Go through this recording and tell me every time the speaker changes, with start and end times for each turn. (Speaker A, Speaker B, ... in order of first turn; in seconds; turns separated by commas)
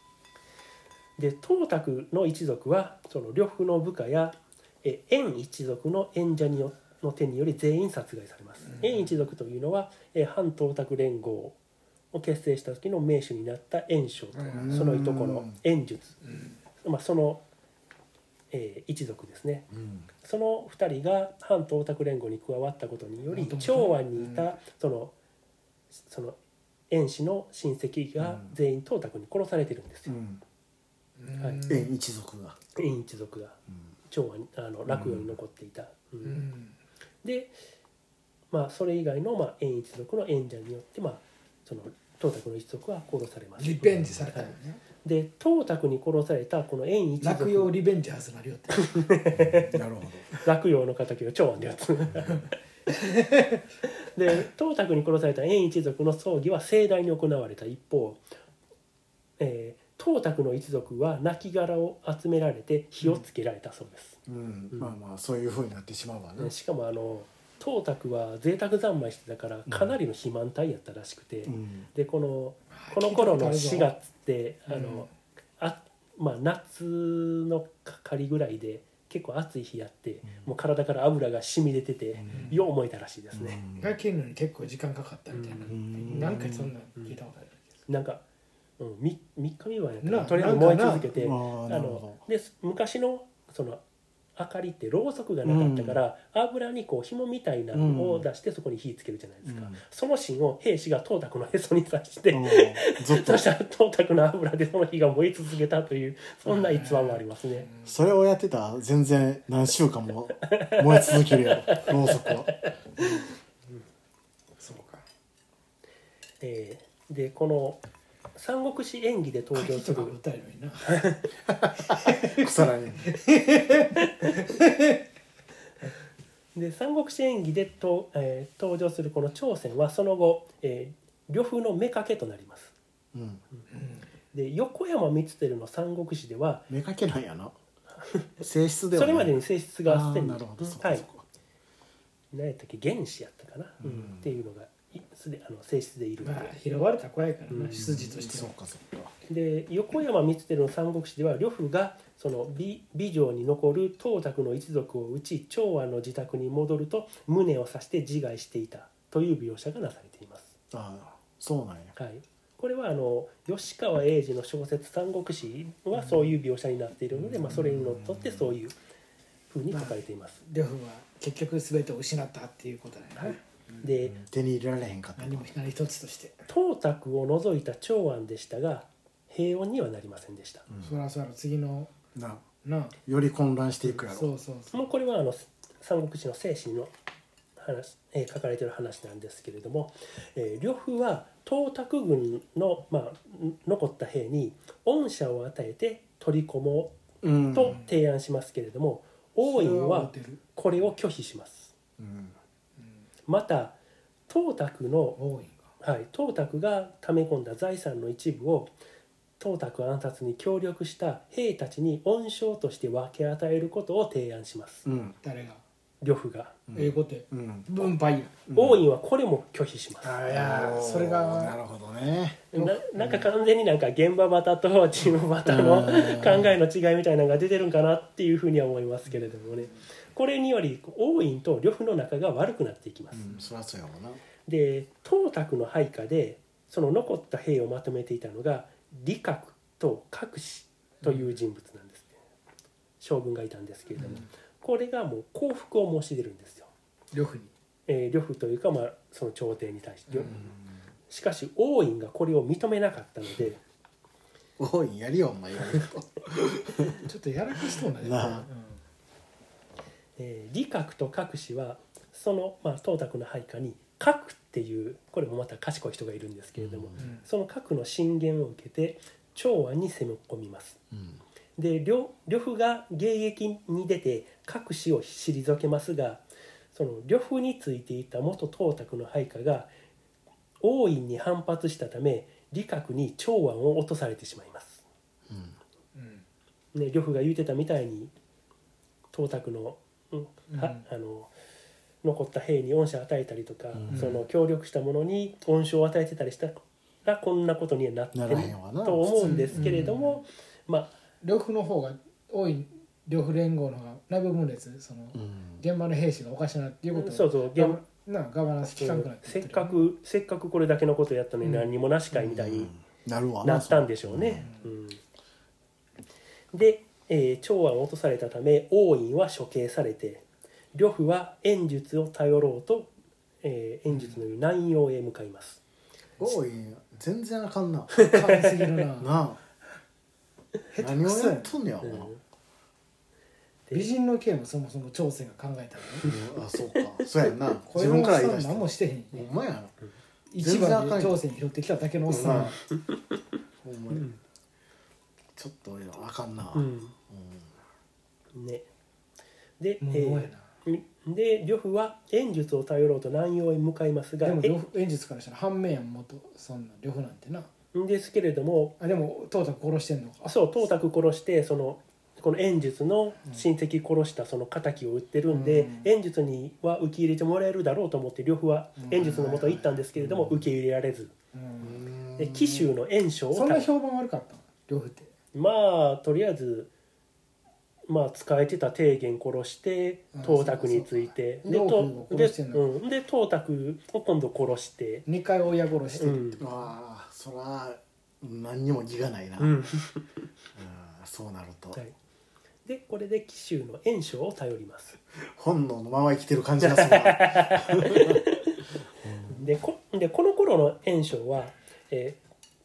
Speaker A: 1.2-11.6, Speaker B: 8.7-9.0, Speaker A: 12.1-16.2, Speaker B: 14.3-14.8, Speaker C: 14.6-15.6, Speaker B: 16.2-16.6, Speaker A: 16.8-17.4, Speaker A: 18.5-19.7, Speaker C: 19.7-20.1, Speaker A: 20.2-25.1, Speaker B: 23.3-24.5, Speaker A: 26.1-26.4, Speaker A: 26.9-30.1, Speaker C: 28.2-28.5, Speaker C: 30.1-30.4, Speaker B: 31.2-31.9, Speaker A: 31.4-31.7, Speaker C: 31.7-32.6, Speaker A: 32.7-33.6, Speaker A: 34.1-36.5, Speaker C: 34.9-35.3, Speaker B: 36.2-36.8, Speaker A: 37.2-37.5, Speaker A: 38.5-47.7, Speaker B: 43.6-44.8, Speaker C: 43.8-44.1, Speaker B: 47.2-48.9, Speaker A: 48.8-49.8, Speaker C: 49.4-50.3, Speaker A: 50.4-52.5, Speaker B: 53.2-53.5, Speaker A: 53.9-58.2, Speaker A: 59.4-64.2, Speaker C: 64.2-66.5, Speaker A: 66.4-83.6, Speaker C: 69.7-69.9, Speaker C: 71.5-71.9, Speaker B: 72.7-73.9, Speaker B: 74.7-75.1, Speaker C: 82.1-82.5, Speaker B: 82.3-82.6, Speaker C: 83.3-83.9, Speaker B: 83.8-87.7, Speaker A: 85.3-85.7, Speaker C: 85.7-86.7, Speaker A: 87.9-88.2, Speaker A: 88.8-93.8, Speaker B: 90.0-91.1, Speaker C: 90.3-90.6, Speaker C: 91.1-92.2, Speaker A: 94.3-107.7, Speaker C: 95.4-96.0, Speaker C: 97.7-98.2, Speaker C: 99.4-99.8, Speaker C: 102.3-103.4, Speaker B: 106.5-108.0, Speaker C: 107.8-112.6, Speaker A: 110.5-112.7, Speaker B: 114.6-115.0, Speaker A: 116.4-117.8, Speaker A: 118.3-120.2, Speaker B: 119.5-121.1, Speaker A: 120.9-121.3, Speaker B: 122.0-122.5, Speaker C: 122.2-123.1, Speaker B: 123.0-125.0, Speaker A: 124.0-124.3, Speaker A: 126.5-132.7, Speaker C: 133.1-133.4, Speaker B: 133.7-134.0, Speaker A: 134.3-136.7, Speaker C: 136.7-137.5, Speaker A: 138.0-138.3, Speaker C: 138.4-141.2, Speaker A: 138.9-141.0, Speaker A: 142.3-146.5, Speaker C: 143.8-144.3, Speaker B: 146.2-148.5, Speaker A: 147.5-147.8, Speaker C: 147.7-149.1, Speaker A: 149.3-160.5, Speaker C: 160.7-161.9, Speaker A: 161.9-168.7, Speaker C: 167.1-168.5, Speaker A: 169.5-170.4, Speaker B: 169.7-173.8, Speaker A: 173.2-174.2, Speaker C: 174.0-175.5, Speaker B: 175.2-176.5, Speaker A: 176.5-180.6, Speaker B: 180.8-181.9, Speaker C: 182.1-182.4, Speaker B: 182.6-182.9, Speaker C: 183.0-184.3, Speaker B: 183.8-184.8, Speaker A: 184.7-186.9, Speaker A: 187.6-196.9, Speaker C: 197.2-197.8, Speaker A: 197.5-201.7, Speaker B: 199.4-200.4, Speaker C: 202.0-202.3, Speaker A: 203.3-203.8, Speaker A: 204.3-205.2, Speaker B: 205.2-205.6, Speaker A: 205.8-208.7, Speaker A: 209.4-214.8, Speaker C: 214.8-215.2, Speaker B: 215.2-215.6, Speaker A: 216.0-216.6, Speaker C: 216.7-217.9, Speaker B: 216.7-218.4, Speaker C: 218.5-218.8, Speaker A: 218.5-220.2, Speaker B: 220.0-221.6, Speaker C: 220.2-223.2, Speaker A: 222.5-233.3, Speaker C: 225.4-226.5, Speaker C: 233.1-234.2, Speaker A: 234.4-242.2, Speaker A: 243.0-246.7, Speaker B: 247.1-247.5, Speaker A: 247.9-250.4, Speaker C: 250.3-250.6, Speaker A: 251.1-253.6, Speaker C: 254.6-256.9, Speaker B: 257.0-258.8, Speaker C: 258.0-258.5, Speaker A: 260.2-270.8, Speaker C: 266.6-267.0, Speaker B: 267.0-267.2, Speaker C: 270.9-271.2, Speaker A: 271.6-279.7, Speaker A: 280.6-284.8, Speaker C: 285.3-285.5, Speaker B: 285.9-286.2, Speaker A: 286.7-288.1, Speaker A: 289.1-291.3, Speaker B: 290.5-290.8, Speaker A: 292.0-300.9, Speaker C: 293.7-294.1, Speaker B: 293.9-294.2, Speaker C: 298.1-299.9, Speaker B: 299.2-300.2, Speaker B: 301.2-309.8, Speaker C: 305.1-305.6, Speaker A: 306.9-307.8, Speaker A: 308.8-312.7, Speaker B: 311.4-311.7, Speaker C: 312.1-314.5, Speaker A: 313.4-315.0, Speaker A: 316.5-322.9, Speaker A: 323.4-325.6, Speaker C: 326.2-328.1, Speaker B: 327.9-329.1, Speaker A: 328.1-328.5, Speaker C: 329.0-329.4, Speaker B: 330.7-331.5, Speaker C: 330.8-332.1, Speaker A: 331.8-332.2, Speaker B: 333.7-336.1, Speaker C: 336.0-339.7, Speaker B: 337.4-339.3, Speaker B: 340.3-342.5, Speaker C: 340.4-341.2, Speaker A: 342.1-343.0, Speaker C: 342.1-342.6, Speaker C: 343.6-344.1, Speaker A: 343.9-344.2, Speaker C: 345.4-347.5, Speaker A: 346.5-346.9, Speaker A: 348.3-348.6, Speaker A: 349.6-354.6, Speaker B: 349.8-350.4, Speaker B: 354.2-357.5, Speaker A: 357.7-358.8, Speaker B: 358.8-360.4, Speaker A: 360.3-371.1, Speaker B: 365.3-365.9, Speaker B: 368.8-369.8, Speaker C: 369.9-370.4, Speaker B: 371.3-371.8, Speaker C: 371.6-372.7, Speaker A: 372.2-373.7, Speaker B: 373.3-375.1, Speaker A: 375.3-376.7, Speaker A: 377.9-385.1, Speaker B: 380.1-382.7, Speaker B: 385.1-386.6, Speaker A: 385.9-386.4, Speaker C: 386.4-389.5, Speaker A: 389.4-390.1, Speaker C: 390.5-391.8, Speaker A: 392.6-395.0, Speaker C: 395.3-398.2, Speaker A: 396.6-398.5, Speaker C: 399.0-399.4, Speaker A: 399.3-402.2